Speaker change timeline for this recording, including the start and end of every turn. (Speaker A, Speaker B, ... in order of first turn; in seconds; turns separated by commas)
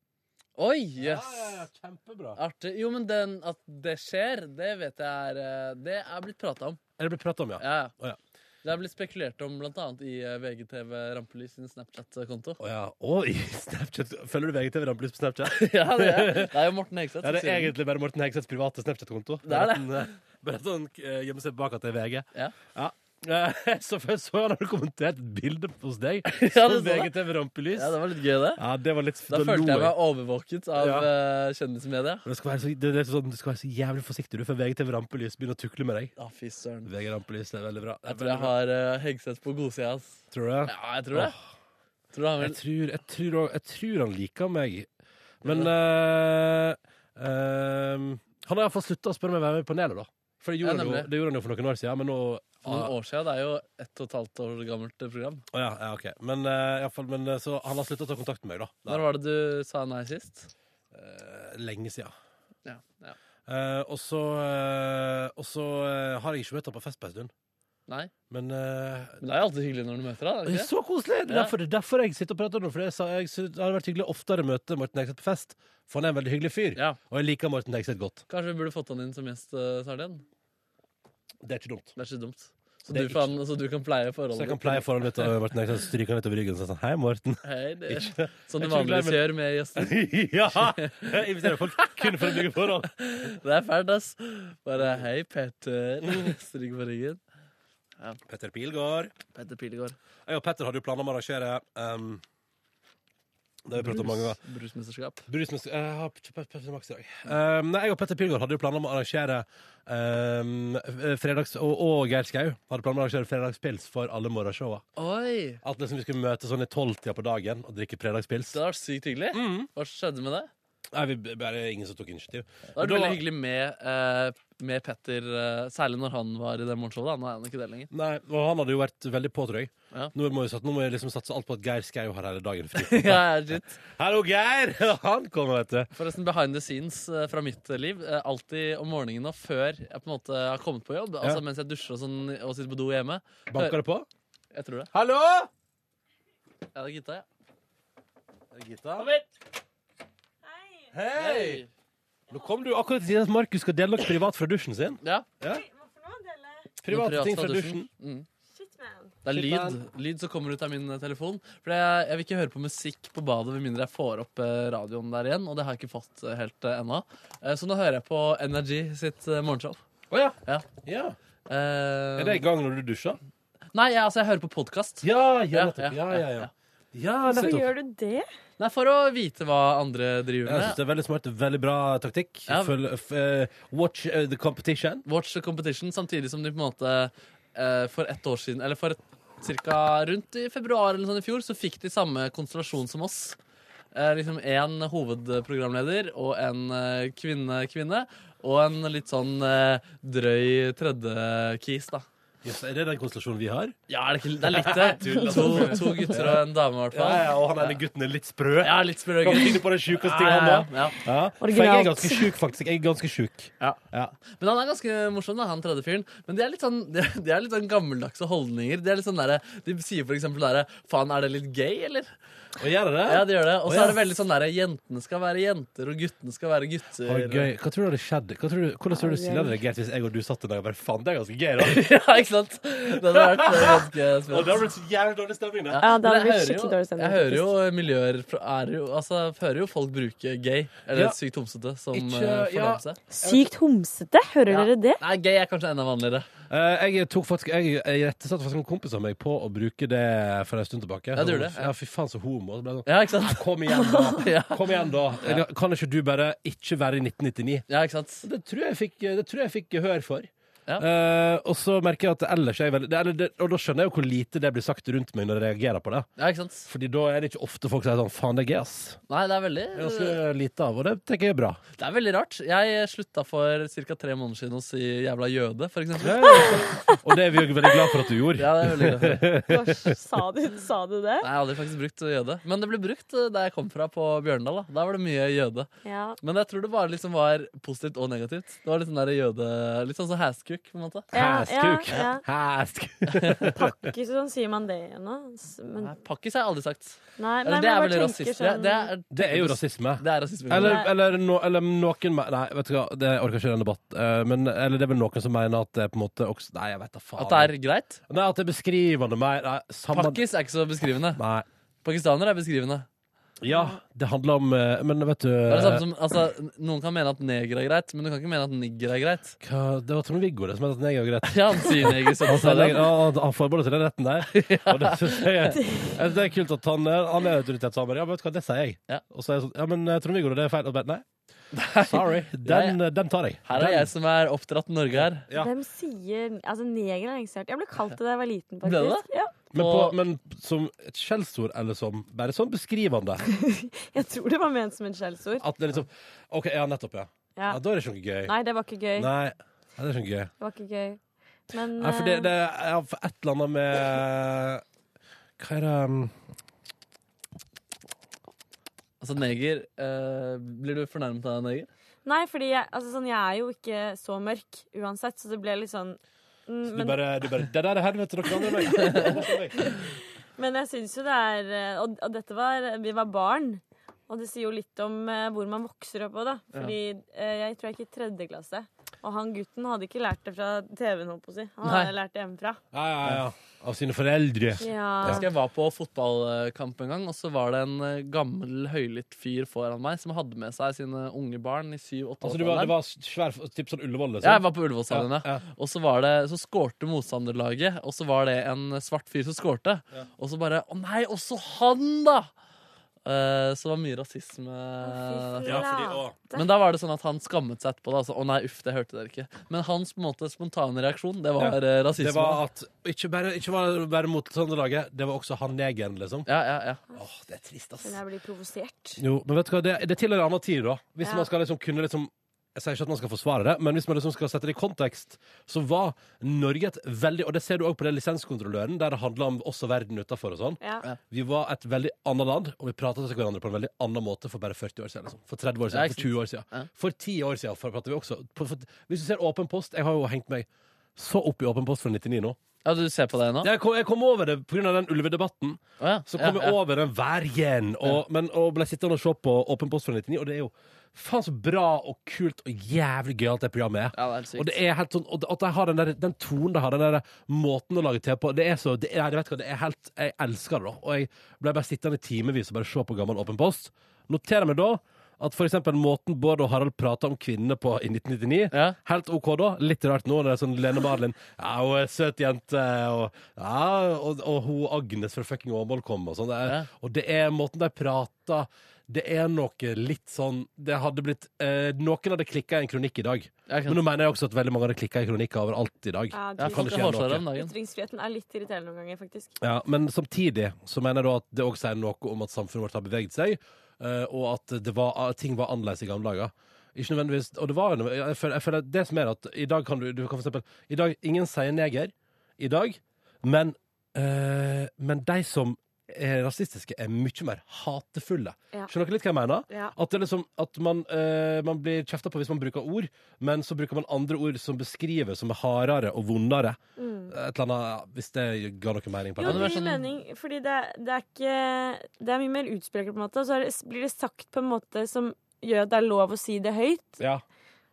Speaker A: 0.6-1.6, Speaker B: 1.0-2.4, Speaker A: 2.4-6.8, Speaker B: 7.0-8.2, Speaker A: 7.6-7.9, Speaker A: 8.6-12.6, Speaker B: 12.6-16.5, Speaker A: 15.5-17.7, Speaker B: 17.2-28.0, Speaker A: 19.5-20.1, Speaker A: 26.3-27.1, Speaker A: 27.7-28.6, Speaker B: 28.6-29.9, Speaker A: 29.3-32.2, Speaker B: 30.8-31.1, Speaker B: 32.2-36.1, Speaker A: 36.2-36.9, Speaker B: 36.9-38.5, Speaker A: 38.1-41.4, Speaker B: 40.3-41.4, Speaker A: 42.1-42.6, Speaker B: 42.4-44.9, Speaker B: 45.4-52.9, Speaker A: 45.4-45.7, Speaker A: 50.6-51.1, Speaker A: 52.6-55.5, Speaker B: 55.5-59.0, Speaker A: 58.9-60.5, Speaker B: 60.9-62.1, Speaker A: 62.6-63.2, Speaker B: 63.5-67.3, Speaker A: 67.9-68.1, Speaker B: 68.3-69.2, Speaker A: 69.2-70.7, Speaker B: 70.5-78.2, Speaker A: 71.3-71.5, Speaker A: 78.3-80.2, Speaker B: 81.4-81.9, Speaker A: 82.0-85.3, Speaker B: 82.8-83.4, Speaker B: 84.3-92.9, Speaker A: 87.5-90.0, Speaker A: 90.5-97.2, Speaker B: 94.8-95.1, Speaker B: 98.3-99.2, Speaker A: 99.3-100.0, Speaker B: 100.3-102.2, Speaker B: 103.7-104.4, Speaker A: 103.8-105.3, Speaker B: 105.3-114.8, Speaker A: 115.0-115.6, Speaker B: 115.6-118.6, Speaker A: 118.5-120.5, Speaker B: 119.3-119.7, Speaker B: 120.9-123.2, Speaker A: 122.8-127.9, Speaker B: 127.9-135.9, Speaker A: 132.8-133.8, Speaker A: 135.9-143.8, Speaker B: 143.5-144.1, Speaker A: 144.5-144.9, Speaker B: 144.9-145.5, Speaker A: 146.8-147.2, Speaker B: 148.5-149.1, Speaker A: 149.0-149.2, Speaker C: 150.4-150.9, Speaker B: 150.9-151.6, Speaker A: 151.2-151.7, Speaker B: 152.3-155.6, Speaker A: 155.0-155.3, Speaker C: 155.5-156.7, Speaker B: 156.8-157.9, Speaker A: 156.9-158.3, Speaker C: 158.5-159.2, Speaker A: 159.2-169.8, Speaker B: 159.3-159.8, Speaker B: 170.1-171.2, Speaker A: 171.5-172.4, Speaker B: 172.2-173.2, Speaker A: 173.7-176.5, Speaker B: 175.0-177.7, Speaker C: 177.3-178.3, Speaker A: 177.3-177.6, Speaker A: 178.6-180.8, Speaker B: 180.4-185.1, Speaker A: 182.5-182.7, Speaker A: 185.1-193.4, Speaker A: 193.9-202.1, Speaker B: 202.4-203.8, Speaker A: 203.9-207.8, Speaker B: 204.4-214.2, Speaker A: 208.6-211.0, Speaker C: 211.4-212.3, Speaker A: 214.3-222.1, Speaker B: 222.6-224.0, Speaker A: 223.1-227.5, Speaker B: 227.1-231.8, Speaker C: 228.9-229.6, Speaker A: 231.6-234.5, Speaker B: 233.0-235.8, Speaker A: 235.7-243.0, Speaker C: 235.8-237.5, Speaker B: 241.9-243.5, Speaker C: 243.1-245.0, Speaker A: 244.5-246.3, Speaker B: 246.5-257.6, Speaker A: 251.2-251.7, Speaker A: 252.8-254.7, Speaker A: 257.7-258.3, Speaker B: 258.2-266.1, Speaker A: 266.2-266.7, Speaker B: 266.7-269.0, Speaker A: 269.1-270.2, Speaker B: 269.8-271.6, Speaker A: 271.8-276.6, Speaker B: 276.0-279.9, Speaker A: 278.4-279.2, Speaker C: 279.5-281.3, Speaker A: 281.2-285.7, Speaker C: 285.8-286.2, Speaker A: 286.2-291.1, Speaker C: 291.1-292.2, Speaker B: 291.1-293.8, Speaker A: 293.2-293.4, Speaker C: 293.5-296.0, Speaker A: 295.8-300.9, Speaker C: 297.2-298.9, Speaker B: 299.1-307.5, Speaker C: 300.6-300.9, Speaker A: 307.2-308.0, Speaker B: 308.1-310.2, Speaker A: 309.9-311.2, Speaker B: 311.2-311.5, Speaker A: 311.8-312.9, Speaker B: 313.4-315.9, Speaker A: 315.5-319.4, Speaker B: 319.4-331.1, Speaker A: 321.3-322.9, Speaker A: 324.3-325.3, Speaker C: 325.6-325.9, Speaker A: 331.5-332.8, Speaker B: 331.9-333.9, Speaker A: 333.4-335.3, Speaker B: 334.9-335.5, Speaker C: 335.3-339.3, Speaker A: 338.6-340.0, Speaker B: 339.5-343.3, Speaker C: 343.3-345.5, Speaker B: 345.4-348.3, Speaker C: 347.4-347.6, Speaker C: 348.3-349.1, Speaker B: 348.9-350.3, Speaker C: 350.4-351.0, Speaker C: 351.5-352.3, Speaker B: 351.8-354.6, Speaker B: 355.4-356.1, Speaker A: 359.0-361.7, Speaker C: 362.1-367.0, Speaker B: 366.7-369.7, Speaker C: 368.3-382.6, Speaker A: 368.8-369.1, Speaker A: 381.6-381.9, Speaker B: 382.7-385.3, Speaker C: 384.6-385.3, Speaker A: 385.0-392.8, Speaker B: 392.2-395.4, Speaker A: 394.2-402.3, Speaker A: 403.1-405.7, Speaker C: 404.8-406.5, Speaker B: 405.4-406.1, Speaker A: 406.3-412.4, Speaker B: 411.4-416.3, Speaker A: 416.3-416.8, Speaker B: 416.9-418.0, Speaker C: 417.8-419.0, Speaker B: 419.0-442.4, Speaker C: 421.0-421.3, Speaker A: 435.7-436.7, Speaker A: 442.6-443.5, Speaker B: 443.4-487.3, Speaker A: 445.8-446.6, Speaker A: 454.0-454.6, Speaker A: 483.5-483.8, Speaker C: 486.1-489.3, Speaker A: 486.4-487.5, Speaker B: 489.4-516.6, Speaker C: 509.5-509.8, Speaker C: 516.8-517.1, Speaker B: 517.1-519.7, Speaker C: 519.2-527.0, Speaker A: 519.2-519.9